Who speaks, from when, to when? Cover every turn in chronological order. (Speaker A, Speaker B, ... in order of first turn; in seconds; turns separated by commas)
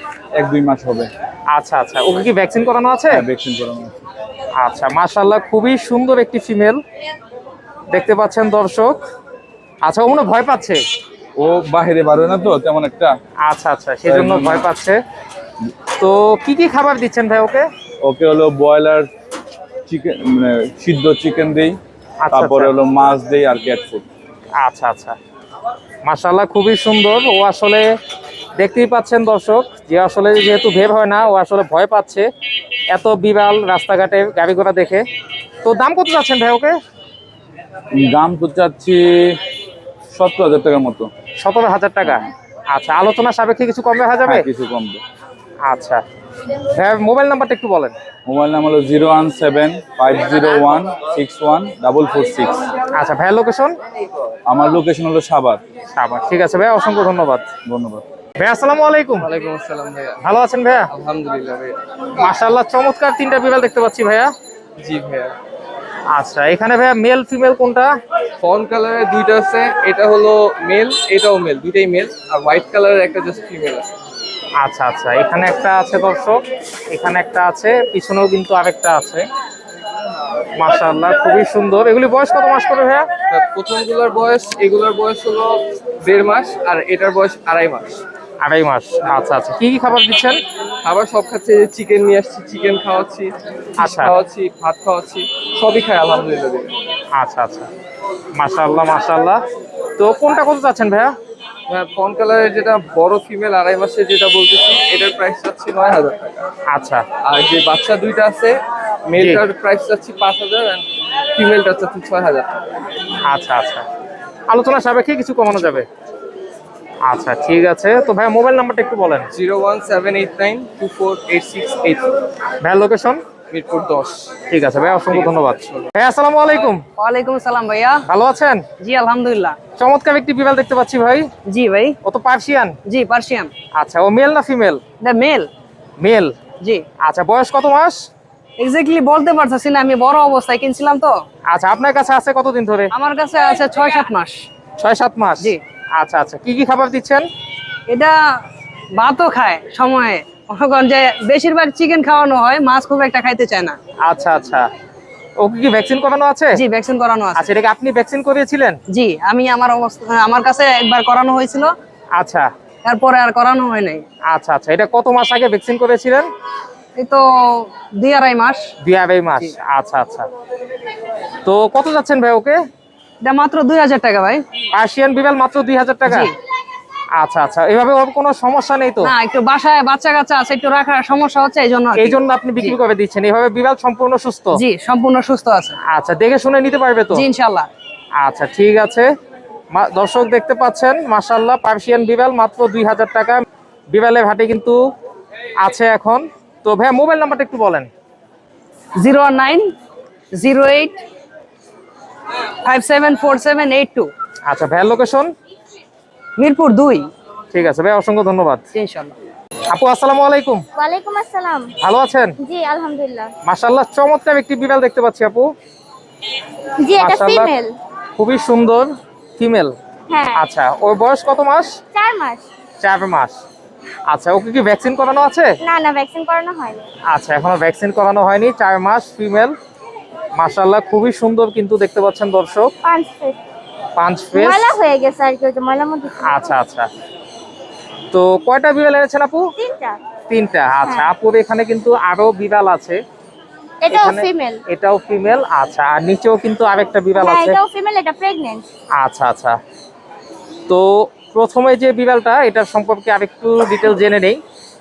Speaker A: 0.3-1.1, Speaker B: 1.5-3.2, Speaker A: 3.1-4.0, Speaker B: 4.6-6.8, Speaker B: 7.9-9.0, Speaker B: 9.8-10.8, Speaker A: 11.4-13.1, Speaker B: 13.4-15.0, Speaker A: 14.0-14.7, Speaker B: 16.0-17.7, Speaker A: 18.0-19.1, Speaker A: 19.9-21.8, Speaker B: 22.2-22.7, Speaker A: 22.3-24.1, Speaker B: 24.6-25.1, Speaker B: 26.0-27.9, Speaker B: 28.6-32.3, Speaker B: 32.9-35.0, Speaker B: 35.6-36.8, Speaker A: 37.9-39.4, Speaker A: 40.1-41.1, Speaker B: 41.4-44.5, Speaker A: 44.2-45.0, Speaker B: 45.6-46.0, Speaker B: 46.7-47.9, Speaker A: 48.2-52.7, Speaker B: 52.9-53.8, Speaker A: 54.5-55.6, Speaker B: 55.9-57.5, Speaker A: 57.6-58.0, Speaker B: 58.4-59.3, Speaker C: 59.2-60.2, Speaker B: 60.2-60.9, Speaker C: 60.9-61.8, Speaker B: 62.2-64.3, Speaker C: 64.8-65.3, Speaker B: 66.1-67.9, Speaker C: 68.4-73.9, Speaker B: 74.6-76.4, Speaker B: 76.9-79.2, Speaker B: 80.6-83.0, Speaker C: 83.3-88.0, Speaker B: 88.4-90.4, Speaker C: 90.8-96.7, Speaker B: 93.8-94.1, Speaker B: 97.1-97.7, Speaker B: 98.3-99.4, Speaker B: 100.0-101.1, Speaker C: 101.7-106.5, Speaker B: 106.7-107.0, Speaker C: 107.2-112.5, Speaker B: 109.2-109.4, Speaker B: 113.2-113.8, Speaker B: 114.5-115.8, Speaker B: 117.0-119.3, Speaker C: 119.3-122.1, Speaker B: 122.6-123.2, Speaker C: 123.5-124.3, Speaker B: 124.5-126.8, Speaker C: 125.1-125.9, Speaker D: 127.0-128.0, Speaker B: 128.1-128.6, Speaker D: 128.8-129.6, Speaker B: 129.8-131.3, Speaker D: 131.5-131.9, Speaker B: 132.0-132.8, Speaker D: 132.8-133.5, Speaker B: 133.8-134.8, Speaker D: 135.0-135.5, Speaker B: 136.0-136.3, Speaker B: 137.0-138.1, Speaker D: 138.6-141.2, Speaker B: 141.5-142.9, Speaker D: 142.9-144.4, Speaker B: 144.8-147.3, Speaker D: 147.9-148.1, Speaker D: 149.0-153.8, Speaker B: 154.0-154.7, Speaker B: 155.4-156.6, Speaker D: 156.5-157.5, Speaker B: 157.3-158.8, Speaker D: 158.9-161.7, Speaker B: 162.1-162.5, Speaker D: 162.8-164.0, Speaker B: 164.3-166.3, Speaker D: 167.0-168.7, Speaker B: 168.8-170.2, Speaker B: 171.4-172.6, Speaker D: 173.2-174.4, Speaker B: 174.7-176.3, Speaker D: 176.1-176.3, Speaker B: 177.1-179.1, Speaker D: 179.0-182.8, Speaker B: 181.9-184.6, Speaker D: 184.5-185.8, Speaker B: 185.9-187.2, Speaker D: 187.1-187.7, Speaker B: 188.2-189.1, Speaker B: 189.7-194.8, Speaker B: 195.6-197.9, Speaker D: 199.0-199.7, Speaker D: 200.3-201.0, Speaker D: 202.6-204.1, Speaker B: 204.5-205.3, Speaker D: 206.4-207.1, Speaker B: 207.5-208.6, Speaker D: 208.7-209.1, Speaker B: 209.7-210.6, Speaker E: 210.8-211.7, Speaker B: 211.8-212.4, Speaker E: 212.4-213.3, Speaker B: 213.4-215.5, Speaker E: 216.8-217.7, Speaker B: 217.0-217.5, Speaker B: 218.2-219.7, Speaker E: 220.1-220.4, Speaker B: 220.3-221.7, Speaker E: 221.9-222.4, Speaker B: 222.8-223.3, Speaker B: 224.1-225.5, Speaker E: 225.6-226.8, Speaker B: 227.1-229.5, Speaker B: 230.3-232.7, Speaker E: 232.8-233.4, Speaker B: 233.9-234.7, Speaker E: 234.3-236.4, Speaker B: 236.2-236.9, Speaker B: 238.1-239.5, Speaker E: 239.6-240.0, Speaker B: 240.3-243.0, Speaker E: 240.8-241.1, Speaker E: 243.8-244.6, Speaker B: 243.9-247.6, Speaker E: 247.2-248.7, Speaker B: 249.0-249.6, Speaker B: 250.7-254.4